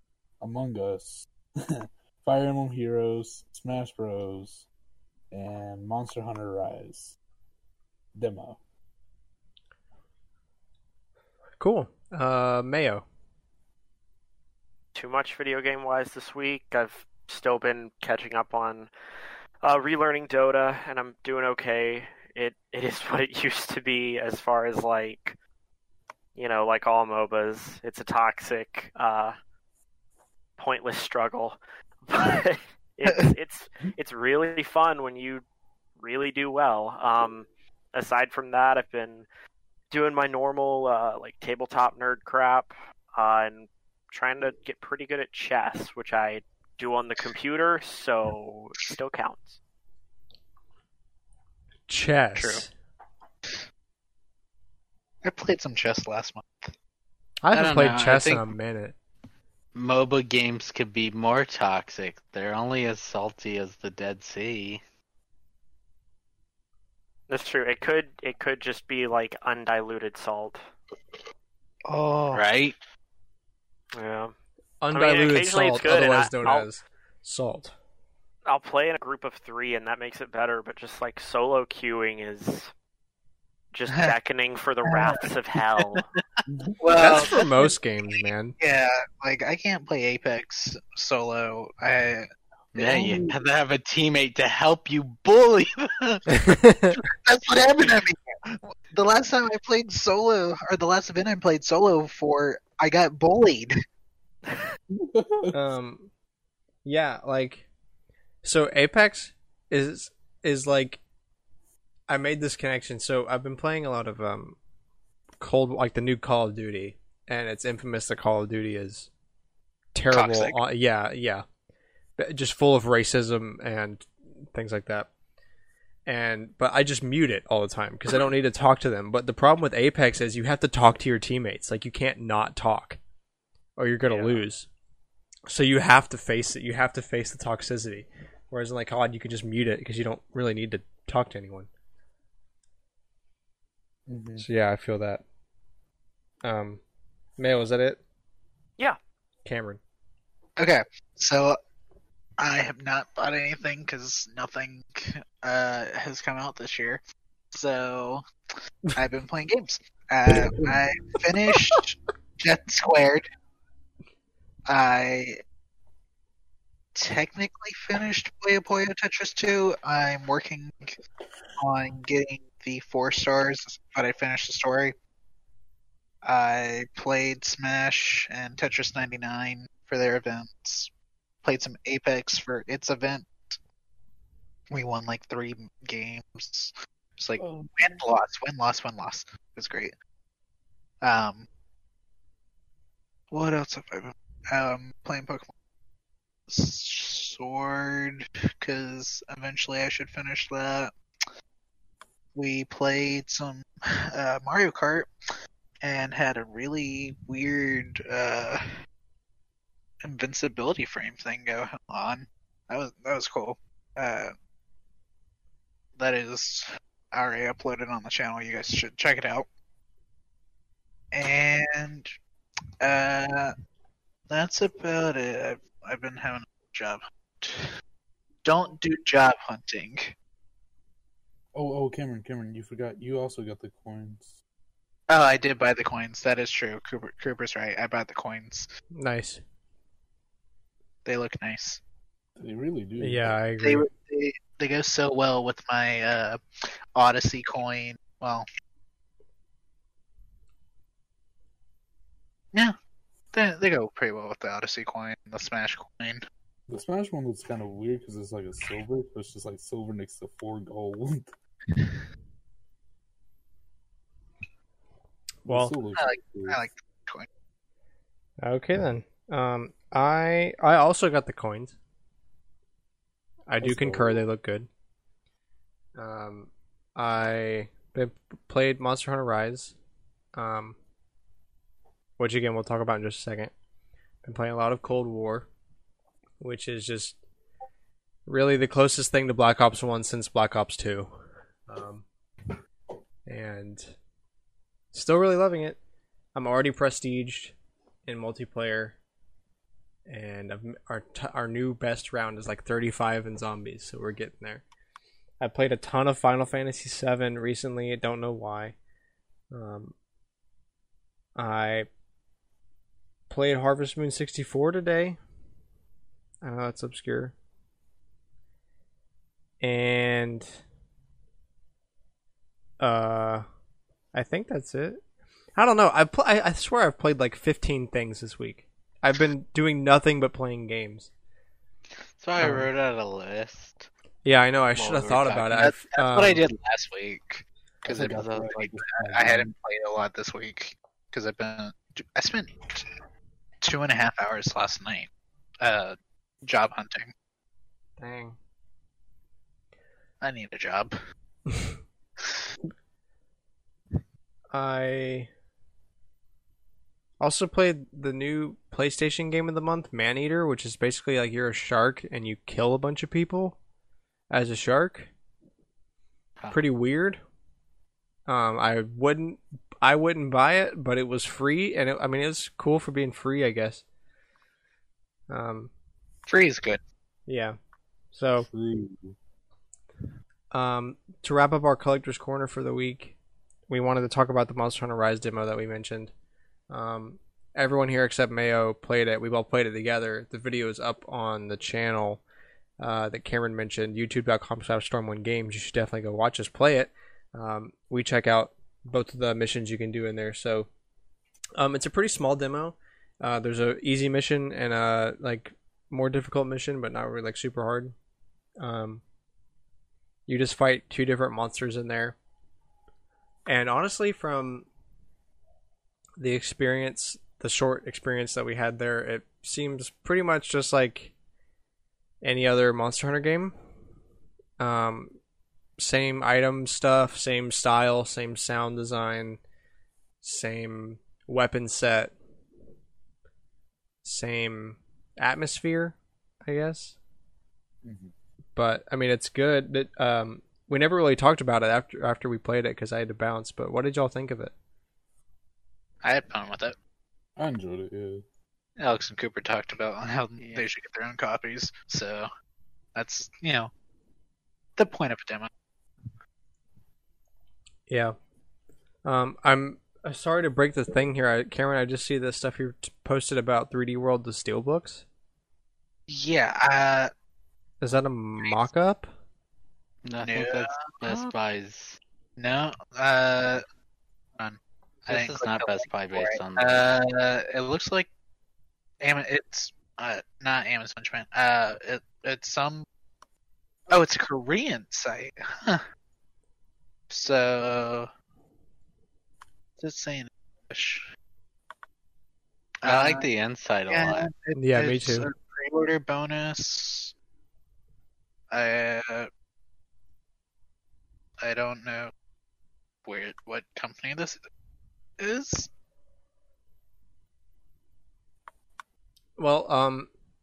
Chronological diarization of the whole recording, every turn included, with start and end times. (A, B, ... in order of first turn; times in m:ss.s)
0:00.4-0:04.7 A
0:05.3-0:07.2 A
0:08.2-0:08.6 A
0:11.6-0:13.0 B
0:15.0-0:18.9 C
0:19.6-0:25.4 C
0:26.4-0:29.4 C
0:30.6-0:35.4 C
0:36.0-0:39.3 C
0:39.9-0:49.6 C
0:51.9-0:52.7 B
0:52.4-0:52.6 D
0:55.2-0:56.7 D
0:57.4-0:59.0 B
0:57.5-0:58.5 E
0:59.8-1:04.8 E
1:07.3-1:10.6 C
1:11.9-1:12.4 D
1:12.3-1:12.8 E
1:13.9-1:14.3 C
1:14.8-1:17.8 B
1:14.9-1:16.7 C
1:18.5-1:22.7 C
1:23.7-1:26.0 C
1:24.9-1:26.0 D
1:26.5-1:26.8 A
1:26.8-1:27.7 D
1:26.9-1:28.6 B
1:28.2-1:32.3 D
1:32.8-1:36.3 E
1:32.8-1:33.1 D
1:32.8-1:33.3 A
1:36.3-1:37.0 B
1:37.0-1:43.8 D
1:44.9-1:45.6 A
1:45.5-1:46.1 B
1:46.8-1:47.6 B
1:48.4-1:51.0 B
1:52.1-1:54.6 B
1:55.4-1:59.1 B
1:59.9-2:01.4 B
2:00.1-2:00.6 D
2:02.2-2:05.1 B
2:06.1-2:13.0 B
2:13.8-2:14.7 B
2:14.1-2:14.4 C
2:15.5-2:21.7 B
2:24.1-2:24.4 A
2:24.4-2:25.2 B
2:26.4-2:26.8 B
2:27.4-2:28.0 B
2:29.4-2:29.8 B
2:30.6-2:31.6 D
2:32.4-2:38.2 D
2:38.9-2:43.2 D
2:44.7-2:45.4 D
2:47.0-2:51.0 D
2:51.6-2:55.0 D
2:56.2-3:00.9 D
3:01.4-3:03.6 D
3:04.7-3:09.9 D
3:07.4-3:08.0 A
3:11.0-3:11.5 D
3:13.3-3:15.5 D
3:16.5-3:20.9 D
3:22.4-3:25.1 D
3:25.8-3:28.6 D
3:30.0-3:34.3 D
3:36.0-3:39.5 D
3:41.1-3:42.1 D
3:42.8-3:43.5 D
3:44.3-3:47.7 D
3:48.4-3:50.1 D
3:51.5-3:54.4 A
3:55.1-3:58.7 D
3:59.0-3:59.4 B
4:01.0-4:01.8 D
4:02.4-4:03.4 A
4:03.0-4:03.9 B
4:03.6-4:06.4 D
4:07.0-4:08.5 D
4:13.3-4:16.2 D
4:16.7-4:21.3 A
4:21.7-4:22.0 D
4:25.4-4:25.7 B
4:25.4-4:26.6 A
4:26.0-4:27.3 D
4:28.4-4:31.8 B
4:33.5-4:34.7 B
4:33.6-4:34.2 A
4:36.0-4:39.8 B
4:40.4-4:40.8 B
4:42.2-4:43.5 B
4:44.2-4:45.5 B
4:46.4-4:47.2 B
4:48.3-4:51.1 B
4:51.7-4:52.0 B
4:53.3-4:54.0 B
4:54.9-4:55.8 B
4:56.4-4:57.6 B
4:58.1-4:59.0 B
5:00.1-5:04.6 B
5:05.4-5:08.8 B
5:09.5-5:09.9 B
5:11.4-5:11.9 B
5:13.3-5:15.2 B
5:16.4-5:17.3 B
5:19.6-5:20.6 B
5:22.8-5:23.4 B
5:24.1-5:25.0 B
5:25.6-5:31.1 B
5:32.2-5:33.9 E
5:32.4-5:32.7 B
5:34.2-5:36.4 B
5:34.8-5:35.4 E
5:35.2-5:42.9 D
5:37.9-5:39.5 A
5:38.2-5:38.7 E
5:43.6-5:45.1 D
5:45.6-5:47.1 D
5:48.0-5:48.4 B
5:50.2-5:50.9 D
5:54.5-5:55.3 B
5:57.2-6:03.6 B
6:04.3-6:05.1 B
6:06.5-6:07.2 B
6:08.3-6:13.8 B
6:15.3-6:15.7 B
6:16.3-6:16.8 D
6:17.3-6:17.6 B
6:18.1-6:18.5 B
6:18.5-6:19.2 A
6:20.5-6:23.2 B
6:23.7-6:26.1 B
6:26.7-6:32.2 B
6:32.8-6:40.7 B
6:41.6-6:47.9 B
6:48.6-6:49.0 B
6:50.3-6:52.2 B
6:53.5-6:54.7 B
6:56.2-7:01.1 B
7:02.2-7:03.5 B
7:04.6-7:05.2 B
7:05.8-7:09.4 B
7:10.2-7:12.2 B
7:14.0-7:17.0 B
7:17.8-7:18.1 A
7:18.6-7:24.5 B
7:26.0-7:26.8 D
7:27.4-7:28.2 A
7:28.8-7:32.3 D
7:30.4-7:30.7 E
7:33.0-7:33.7 D
7:34.8-7:35.5 D
7:37.9-7:38.2 B
7:39.0-7:45.0 B
7:46.1-7:47.1 D
7:47.8-7:49.1 B
7:50.0-7:52.0 E
7:50.2-7:51.3 D
7:52.4-7:53.6 D
7:54.4-7:58.1 D
7:55.1-7:56.9 E
7:59.0-8:02.8 D
8:03.9-8:05.8 D
8:07.1-8:08.1 D
8:09.8-8:11.1 D
8:12.8-8:14.3 E
8:12.8-8:13.3 D
8:13.9-8:17.1 D
8:14.6-8:15.3 B
8:18.5-8:19.3 D
8:21.4-8:22.1 D
8:23.0-8:24.4 D
8:25.2-8:25.7 D
8:29.4-8:30.1 B